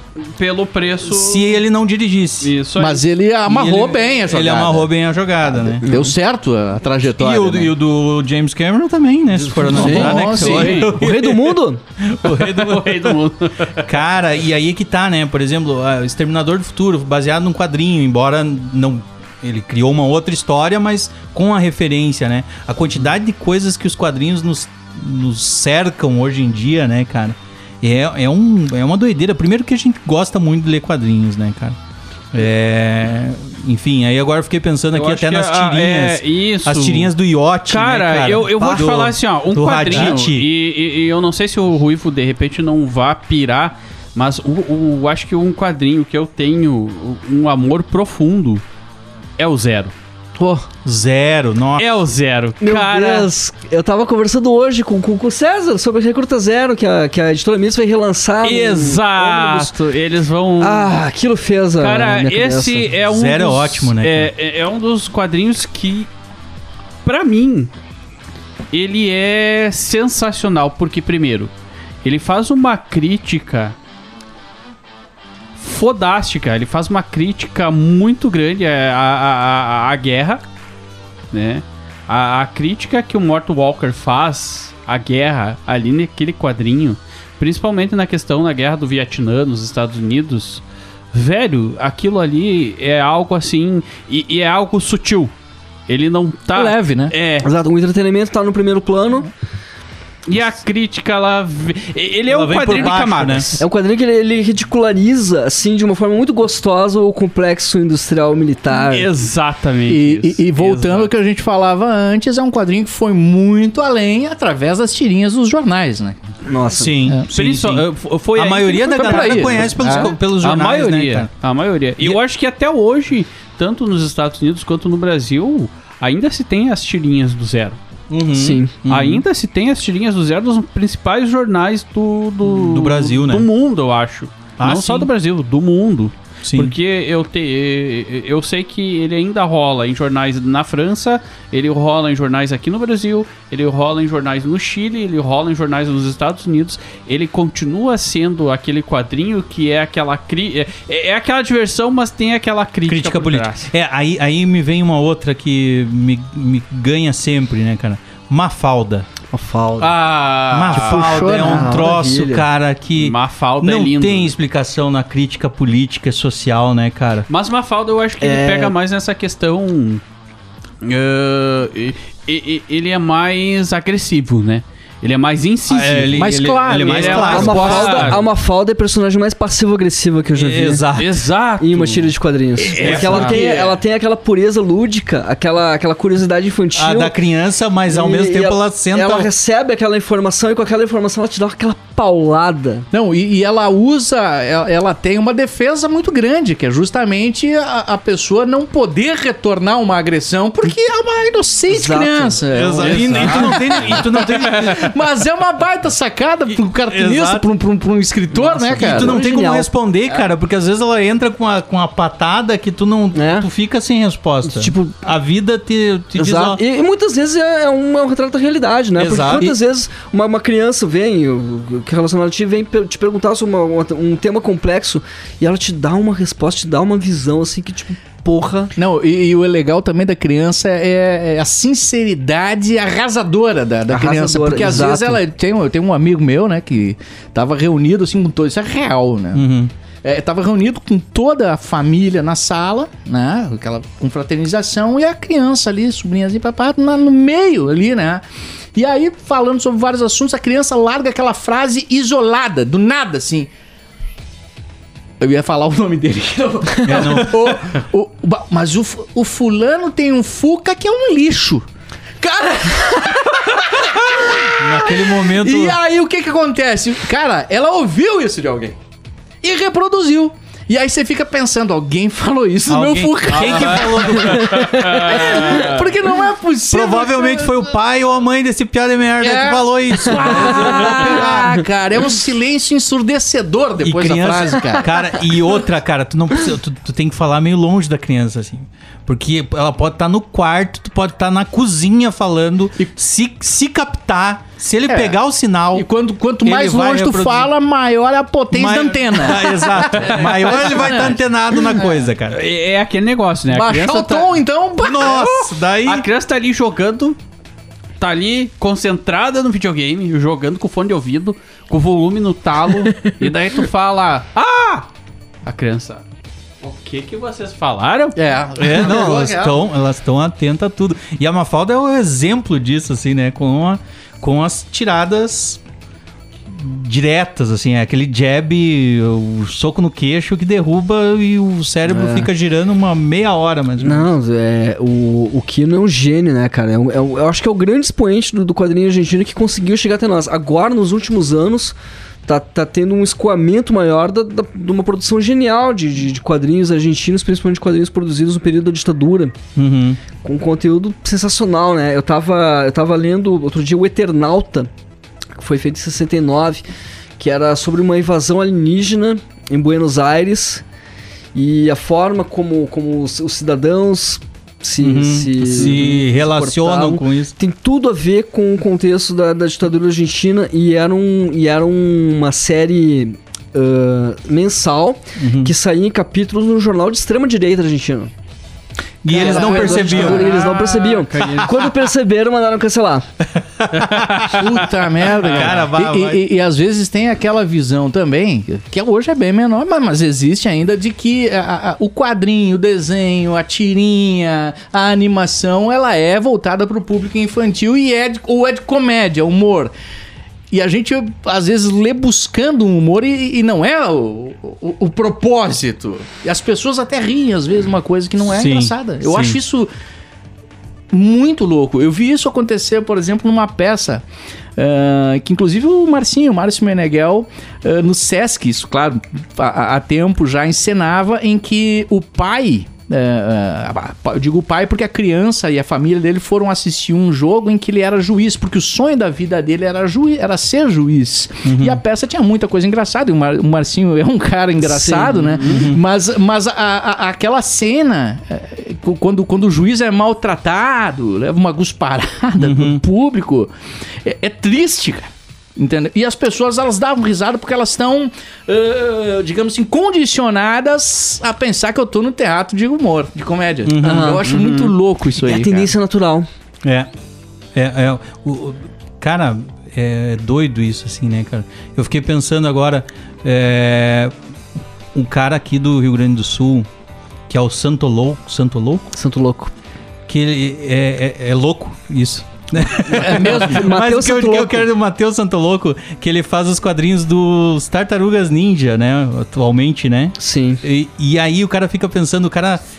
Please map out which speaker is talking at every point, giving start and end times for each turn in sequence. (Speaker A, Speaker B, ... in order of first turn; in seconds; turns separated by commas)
Speaker A: 0.2-1.6, Speaker B: 1.0-2.5, Speaker A: 2.4-3.0, Speaker C: 2.8-4.9, Speaker B: 3.5-5.9, Speaker C: 5.5-7.7, Speaker D: 5.8-6.1, Speaker B: 7.2-13.2, Speaker C: 9.5-10.9, Speaker D: 9.5-11.8, Speaker A: 9.7-10.9, Speaker A: 12.2-13.9, Speaker B: 13.8-31.8, Speaker B: 32.3-40.5, Speaker A: 34.9-37.1, Speaker A: 37.6-48.6, Speaker A: 49.4-49.9, Speaker D: 50.4-50.6, Speaker B: 50.8-51.9, Speaker A: 51.8-53.3, Speaker D: 52.6-59.7, Speaker A: 58.4-61.0, Speaker D: 60.6-62.9, Speaker A: 61.8-66.1, Speaker B: 63.0-64.3, Speaker A: 67.0-67.7, Speaker A: 68.7-71.5, Speaker A: 72.0-73.7, Speaker A: 75.6-80.4, Speaker A: 81.3-95.3, Speaker A: 95.9-97.5, Speaker C: 96.5-97.1, Speaker D: 97.4-99.3, Speaker A: 100.2-103.6, Speaker B: 102.3-103.6, Speaker D: 103.6-109.1, Speaker A: 108.7-111.1, Speaker C: 109.9-116.2, Speaker D: 116.4-117.0, Speaker B: 116.7-121.3, Speaker A: 117.3-127.8, Speaker C: 118.9-120.1, Speaker B: 128.1-129.2, Speaker D: 128.3-128.7, Speaker A: 128.8-153.7, Speaker B: 132.4-133.5, Speaker B: 134.6-135.1, Speaker B: 136.4-136.7, Speaker B: 152.9-159.1, Speaker D: 159.3-159.9, Speaker A: 159.8-161.1, Speaker B: 160.5-167.3, Speaker C: 160.7-161.8, Speaker D: 161.1-162.4, Speaker A: 162.9-164.3, Speaker A: 167.3-170.0, Speaker D: 168.2-168.7, Speaker A: 170.8-178.2, Speaker B: 175.7-178.3, Speaker C: 176.1-177.8, Speaker D: 177.0-180.8, Speaker B: 180.3-181.2, Speaker A: 180.9-182.0, Speaker D: 181.6-187.1, Speaker B: 182.7-183.4, Speaker C: 182.7-183.8, Speaker A: 182.8-183.3, Speaker B: 186.7-189.3, Speaker D: 187.9-192.8, Speaker C: 192.9-209.2, Speaker D: 201.7-202.4, Speaker B: 202.5-204.9, Speaker A: 202.7-204.8, Speaker B: 206.8-207.4, Speaker D: 208.3-209.7, Speaker B: 208.8-216.6, Speaker D: 213.1-213.5, Speaker D: 214.4-214.9, Speaker D: 216.1-228.7, Speaker B: 219.0-219.6, Speaker C: 228.8-239.4, Speaker D: 233.9-235.2, Speaker B: 239.3-239.7, Speaker C: 240.0-248.2, Speaker C: 248.7-253.5, Speaker C: 255.2-261.6, Speaker B: 256.8-257.7, Speaker C: 262.2-268.8, Speaker B: 264.4-265.8, Speaker C: 269.4-274.2, Speaker B: 272.7-275.5, Speaker A: 273.2-275.8, Speaker D: 274.4-275.0, Speaker C: 274.9-277.7, Speaker B: 276.7-281.6, Speaker C: 279.2-285.0, Speaker B: 283.8-295.9, Speaker C: 294.9-295.2, Speaker C: 295.7-301.8, Speaker B: 296.4-297.5, Speaker B: 298.5-302.4, Speaker A: 302.3-304.3, Speaker C: 303.5-305.5, Speaker B: 304.8-306.1, Speaker A: 305.8-307.2, Speaker A: 308.0-314.9, Speaker A: 315.4-316.0, Speaker A: 316.6-318.2, Speaker C: 318.1-319.6, Speaker B: 318.6-325.6, Speaker B: 326.5-334.1, Speaker D: 331.9-332.3, Speaker D: 333.8-341.7, Speaker D: 342.2-349.3, Speaker B: 349.6-350.0, Speaker D: 350.2-354.7, Speaker D: 355.4-356.6, Speaker D: 357.2-360.6, Speaker D: 361.3-378.1, Speaker B: 364.8-367.3, Speaker B: 375.2-375.5, Speaker B: 379.0-380.4, Speaker D: 379.1-383.1, Speaker A: 379.1-381.7, Speaker B: 383.5-384.4, Speaker A: 383.7-384.5, Speaker C: 384.3-399.7, Speaker A: 385.2-385.7, Speaker B: 385.2-386.2, Speaker C: 400.5-409.7, Speaker B: 408.3-409.4, Speaker C: 410.9-414.0, Speaker C: 414.6-443.5, Speaker B: 431.4-431.8, Speaker D: 434.6-435.4, Speaker A: 435.4-435.6, Speaker B: 435.4-435.8, Speaker B: 442.4-442.8, Speaker C: 444.0-455.7, Speaker B: 453.6-454.2, Speaker D: 453.8-454.3, Speaker A: 454.3-454.7, Speaker D: 455.2-456.3, Speaker B: 456.6-456.9, Speaker B: 457.5-464.1, Speaker B: 464.9-466.7, Speaker B: 467.3-468.9, Speaker D: 468.9-469.5, Speaker B: 470.1-482.6, Speaker C: 472.9-473.7, Speaker D: 473.0-474.7, Speaker D: 480.2-480.6